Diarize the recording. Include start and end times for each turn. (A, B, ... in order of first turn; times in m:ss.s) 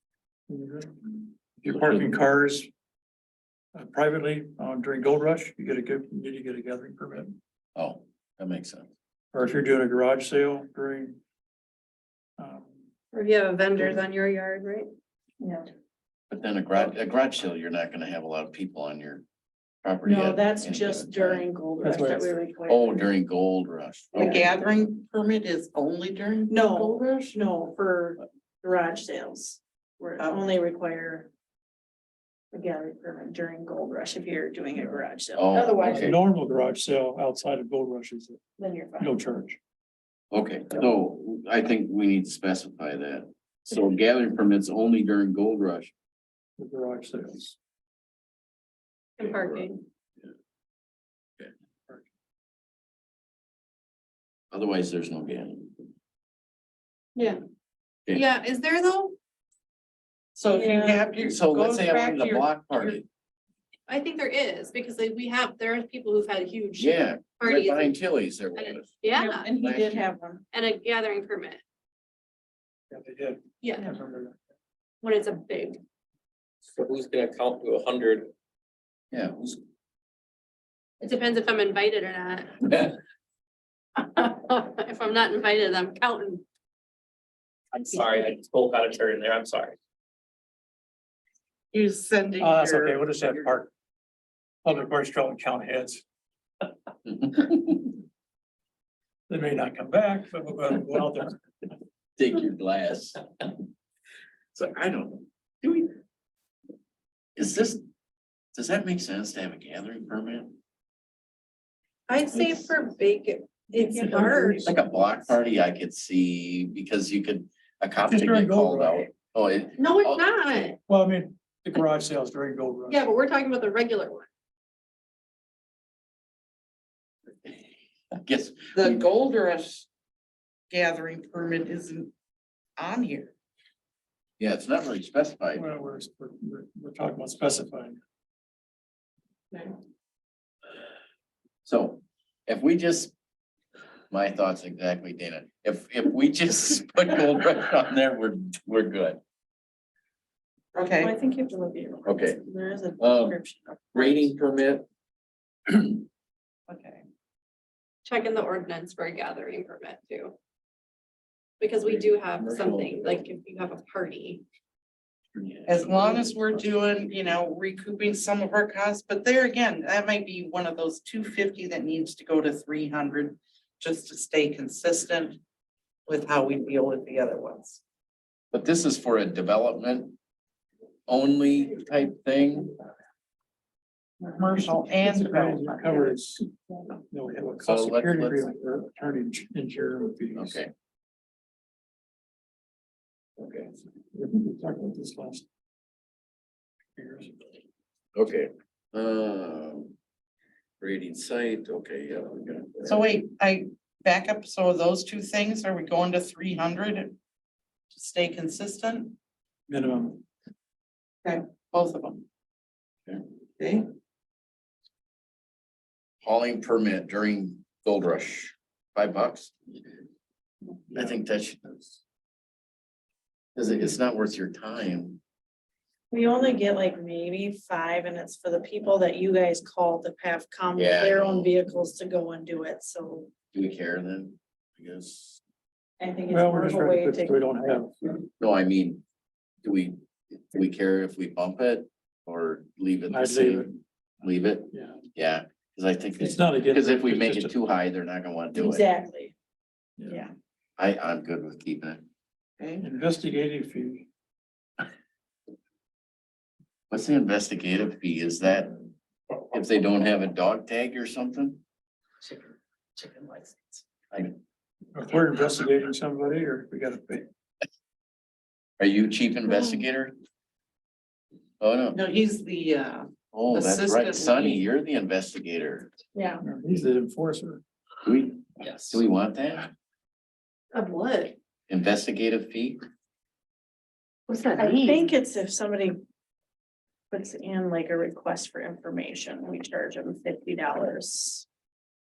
0:00.5-0:02.7 A
0:03.7-0:07.4 A
0:07.8-0:08.9 B
0:09.3-0:11.2 A
0:12.4-0:12.8 A
0:13.1-0:14.9 C
0:15.4-0:15.7 D
0:16.3-0:19.2 B
0:19.8-0:21.4 B
0:20.0-0:23.1 D
0:21.8-0:22.2 A
0:22.7-0:24.5 B
0:24.2-0:27.4 E
0:24.2-0:24.4 D
0:26.5-0:31.3 D
0:32.5-0:36.2 D
0:35.3-0:36.2 B
0:35.9-0:38.4 A
0:38.6-0:39.1 D
0:39.0-0:39.6 A
0:40.3-0:45.9 B
0:46.6-0:47.6 A
0:49.2-0:49.8 C
0:49.2-0:49.7 B
0:54.5-0:55.9 B
0:57.2-0:57.4 C
0:58.1-0:59.2 C
1:00.3-1:03.0 E
1:00.5-1:01.1 D
1:01.2-1:03.0 B
1:03.9-1:08.0 C
1:06.8-1:08.9 B
1:08.5-1:09.5 C
1:09.1-1:10.4 D
1:09.6-1:10.0 B
1:10.5-1:11.6 C
1:12.9-1:14.3 A
1:15.0-1:15.8 C
1:16.7-1:18.3 F
1:19.1-1:19.6 B
1:21.0-1:22.9 C
1:24.0-1:26.4 C
1:27.7-1:29.8 F
1:31.7-1:33.4 E
1:32.4-1:33.7 A
1:34.6-1:36.0 A
1:37.1-1:37.9 B
1:39.3-1:41.4 A
1:42.2-1:43.2 B
1:44.5-1:46.0 B
1:47.4-1:47.8 B
1:48.5-1:50.6 B
1:52.1-1:54.7 C
1:53.8-1:54.7 D
1:54.1-2:00.7 B
1:58.0-1:59.1 A
1:59.8-2:00.8 C
2:00.9-2:03.0 A
2:02.9-2:04.3 C
2:07.4-2:09.0 B
2:08.7-2:09.9 E
2:10.7-2:12.1 E
2:12.8-2:13.3 E
2:14.4-2:15.6 B
2:15.5-2:18.0 A
2:21.6-2:23.1 B
2:24.1-2:29.2 B
2:30.7-2:31.1 E
2:30.9-2:34.3 D
2:32.0-2:32.4 B
2:33.0-2:33.4 B
2:33.9-2:34.8 B
2:35.7-2:36.0 B
2:36.7-2:37.0 E
2:38.0-2:40.3 C
2:41.6-2:44.4 C
2:41.8-2:43.2 B
2:45.3-2:46.7 B
2:45.6-2:55.4 E
2:56.1-2:57.8 E
2:58.5-3:00.2 B
3:01.1-3:02.8 B
3:04.3-3:06.0 E
3:05.0-3:10.6 A
3:07.6-3:08.5 B
3:10.4-3:10.7 B
3:13.4-3:13.7 B
3:14.1-3:15.4 A
3:17.0-3:17.4 A
3:18.1-3:19.9 B
3:20.8-3:23.0 B
3:22.8-3:27.2 E
3:27.9-3:29.1 E
3:29.7-3:30.2 A
3:31.2-3:32.2 E
3:33.6-3:33.9 E
3:36.2-3:39.5 B
3:40.9-3:42.0 B
3:43.6-3:45.2 B
3:46.1-3:53.3 D
3:50.7-3:51.5 B
3:53.5-3:55.4 B
3:56.0-3:57.4 D
3:56.3-3:58.2 A
3:58.4-3:59.0 B
3:59.6-4:03.7 B
4:03.1-4:03.8 A
4:04.2-4:08.8 B
4:04.7-4:05.0 A
4:06.2-4:07.5 A
4:08.5-4:09.3 D
4:10.0-4:10.2 A
4:10.1-4:10.3 D
4:10.8-4:12.0 B
4:12.8-4:14.1 A
4:16.9-4:18.7 B
4:19.5-4:21.6 B
4:23.0-4:23.7 D
4:24.9-4:27.3 A
4:28.8-4:30.1 B
4:31.6-4:32.0 B
4:31.9-4:34.6 E
4:33.3-4:35.9 B
4:36.1-4:36.4 D
4:36.4-4:37.6 A
4:38.0-4:39.7 B
4:40.7-4:41.3 C
4:41.7-4:42.8 B
4:44.3-4:45.0 C
4:44.6-4:46.0 D
4:47.1-4:51.4 D